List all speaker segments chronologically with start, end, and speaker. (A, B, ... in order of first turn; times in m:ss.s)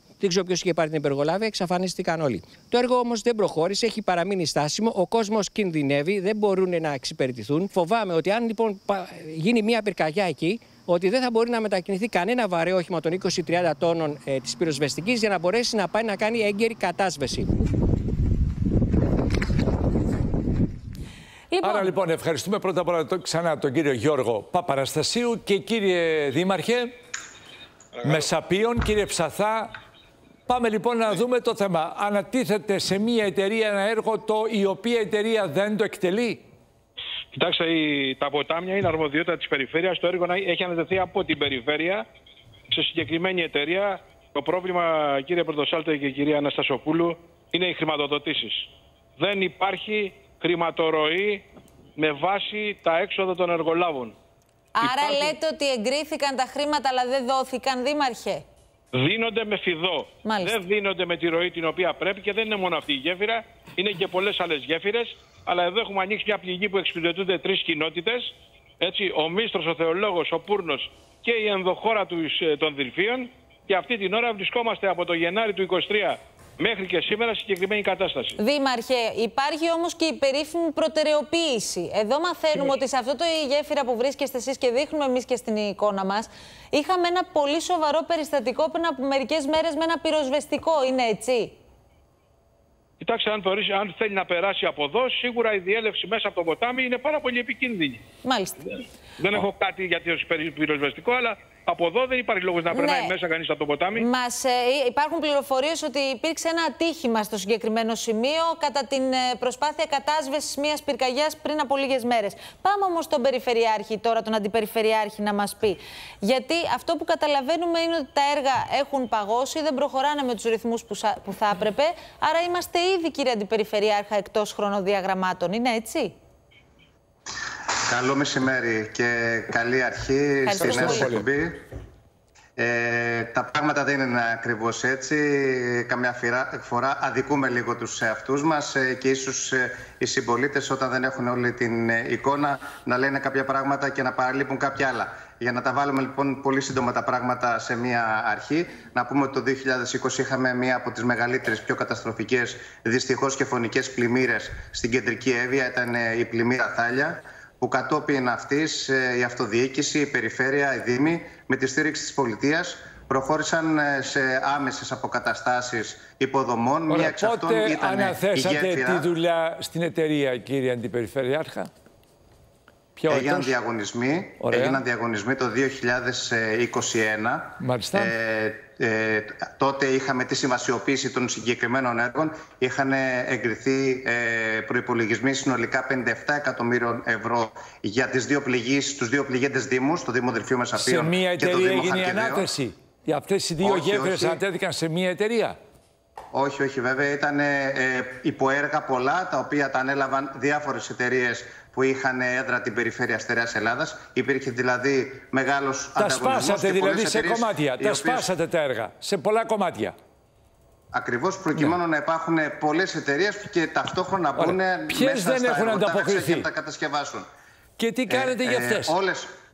0:00.2-0:17.6 A
0:21.5-0:21.9 B
0:21.6-0:26.9 C
0:28.0-0:29.7 C
0:30.5-0:36.4 C
0:37.3-0:42.0 D
0:42.7-0:48.6 D
0:49.2-0:51.4 D
0:52.0-0:54.2 D
0:54.8-0:58.4 B
0:54.8-0:55.4 D
0:58.9-1:18.4 D
1:00.2-1:00.6 B
1:18.4-1:31.5 B
1:33.0-1:38.0 D
1:38.2-1:38.6 B
1:39.2-1:44.0 D
1:42.7-1:43.1 B
1:44.0-2:06.1 B
2:07.9-2:11.6 E
2:10.4-2:11.1 B
2:10.6-2:11.2 C
2:12.6-2:49.1 E
2:46.9-2:51.7 C
2:53.0-2:53.5 C
2:53.1-3:12.5 E
2:54.4-2:54.8 C
2:57.6-2:58.1 C
3:10.8-3:15.6 C
3:13.6-3:14.4 E
3:16.3-3:28.3 E
3:26.0-3:29.9 C
3:30.9-3:37.2 E
3:34.4-3:36.5 C
3:37.8-3:38.9 C
3:38.1-3:39.3 E